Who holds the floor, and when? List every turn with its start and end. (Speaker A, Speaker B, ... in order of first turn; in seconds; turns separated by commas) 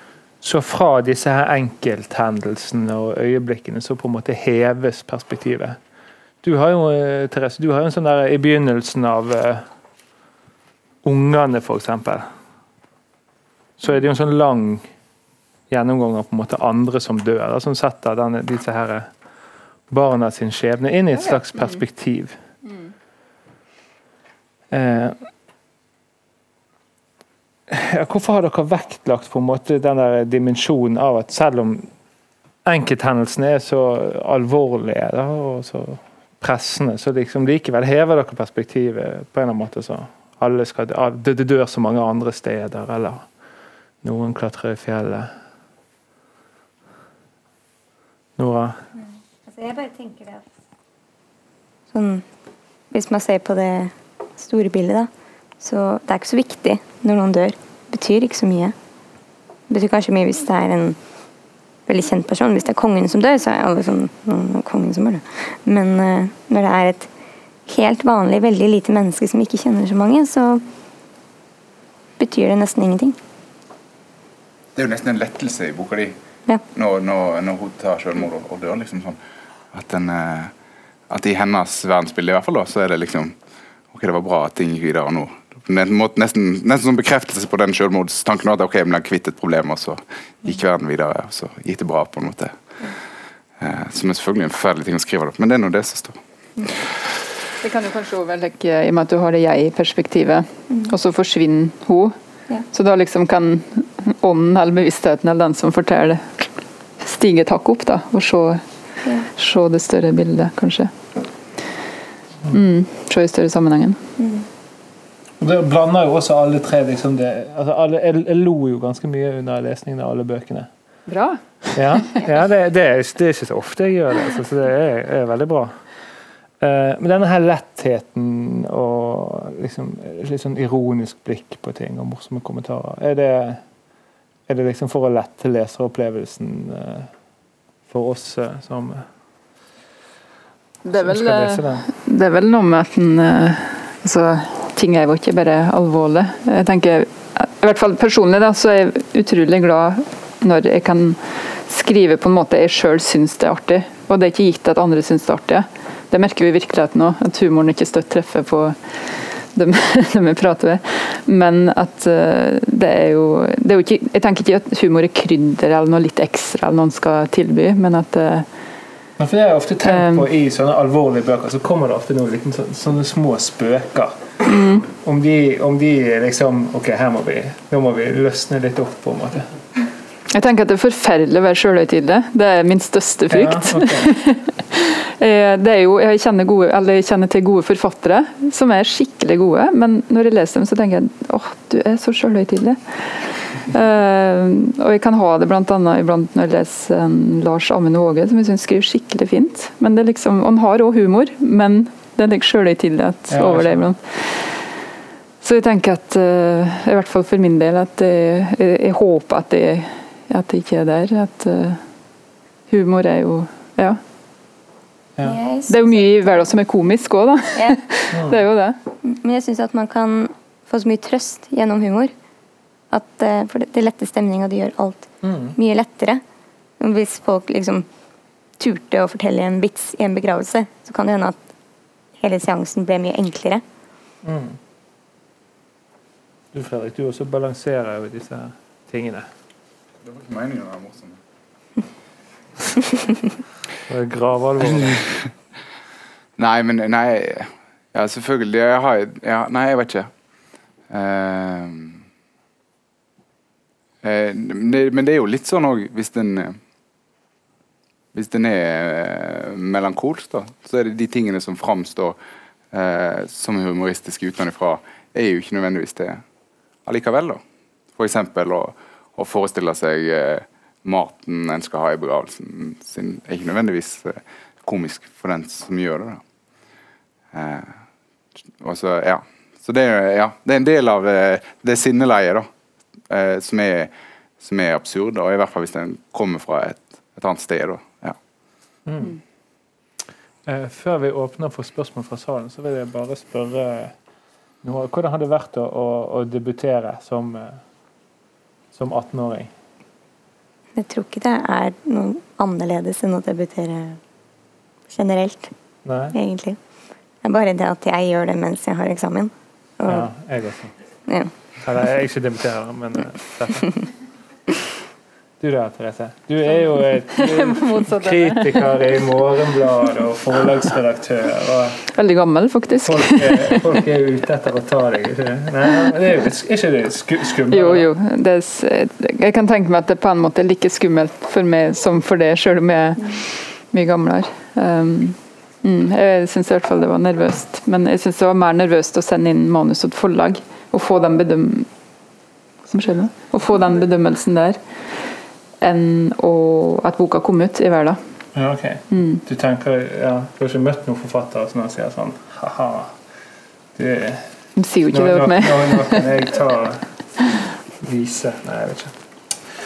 Speaker A: 0.4-5.8, Speaker A: 6.4-9.6, Speaker A: 11.0-12.3, Speaker A: 13.8-14.9, Speaker A: 15.7-19.1, Speaker A: 19.9-22.4, Speaker B: 21.3-21.8, Speaker A: 24.7-25.2, Speaker A: 27.7-31.9, Speaker A: 32.6-43.3, Speaker A: 44.0-45.3, Speaker A: 48.4-48.8, Speaker C: 49.4-50.4, Speaker C: 51.9-52.2, Speaker C: 52.9-55.1, Speaker C: 55.6-58.7, Speaker C: 59.7-61.0, Speaker C: 61.9-67.1, Speaker C: 67.7-70.6, Speaker C: 72.2-73.2, Speaker D: 74.7-76.1, Speaker D: 76.7-79.2, Speaker D: 79.7-80.5, Speaker D: 81.1-83.3, Speaker D: 83.9-92.6, Speaker D: 93.6-96.2, Speaker B: 97.6-102.1, Speaker B: 102.7-106.5, Speaker B: 107.0-108.6, Speaker B: 109.3-110.9, Speaker B: 112.5-114.0, Speaker C: 114.2-114.5, Speaker A: 115.4-120.7, Speaker B: 121.1-121.4, Speaker A: 121.7-125.8, Speaker A: 126.6-133.6, Speaker A: 134.5-137.1, Speaker A: 137.9-139.1, Speaker B: 140.8-168.5, Speaker A: 140.9-141.9, Speaker A: 169.2-174.2, Speaker B: 169.9-170.3, Speaker B: 174.4-174.9, Speaker A: 174.9-179.5, Speaker B: 180.3-204.7, Speaker A: 183.3-184.1, Speaker A: 203.3-203.9, Speaker B: 205.4-211.8, Speaker B: 212.7-214.0, Speaker C: 215.2-216.5, Speaker B: 215.7-218.8, Speaker C: 219.0-222.1, Speaker C: 222.9-226.2, Speaker A: 225.2-225.6, Speaker C: 226.8-227.9, Speaker C: 228.6-231.4, Speaker C: 232.2-233.6, Speaker A: 234.2-234.6, Speaker A: 236.5-239.3, Speaker D: 240.0-241.2, Speaker A: 243.9-245.1, Speaker D: 244.7-245.0, Speaker D: 246.4-250.1, Speaker D: 250.9-252.0, Speaker D: 254.0-256.6, Speaker D: 258.1-262.2, Speaker D: 262.7-266.2, Speaker D: 266.9-267.4, Speaker D: 267.9-276.2, Speaker D: 277.3-277.8, Speaker D: 278.6-282.5, Speaker D: 283.1-288.2, Speaker A: 288.9-289.2, Speaker A: 290.4-293.9, Speaker A: 294.6-297.6, Speaker A: 298.7-299.5, Speaker C: 300.7-304.0, Speaker C: 304.9-305.5, Speaker A: 305.9-306.2, Speaker C: 306.1-306.6, Speaker C: 307.2-310.1, Speaker A: 309.9-310.7, Speaker A: 311.6-313.8, Speaker A: 315.4-321.9, Speaker B: 317.1-318.8, Speaker B: 321.9-323.6, Speaker A: 322.8-327.9, Speaker B: 327.5-341.7, Speaker B: 342.7-344.9, Speaker B: 345.6-348.0, Speaker A: 348.4-352.9, Speaker B: 348.9-349.2, Speaker A: 353.7-354.3, Speaker B: 354.6-356.1, Speaker A: 354.9-356.9, Speaker A: 357.8-358.9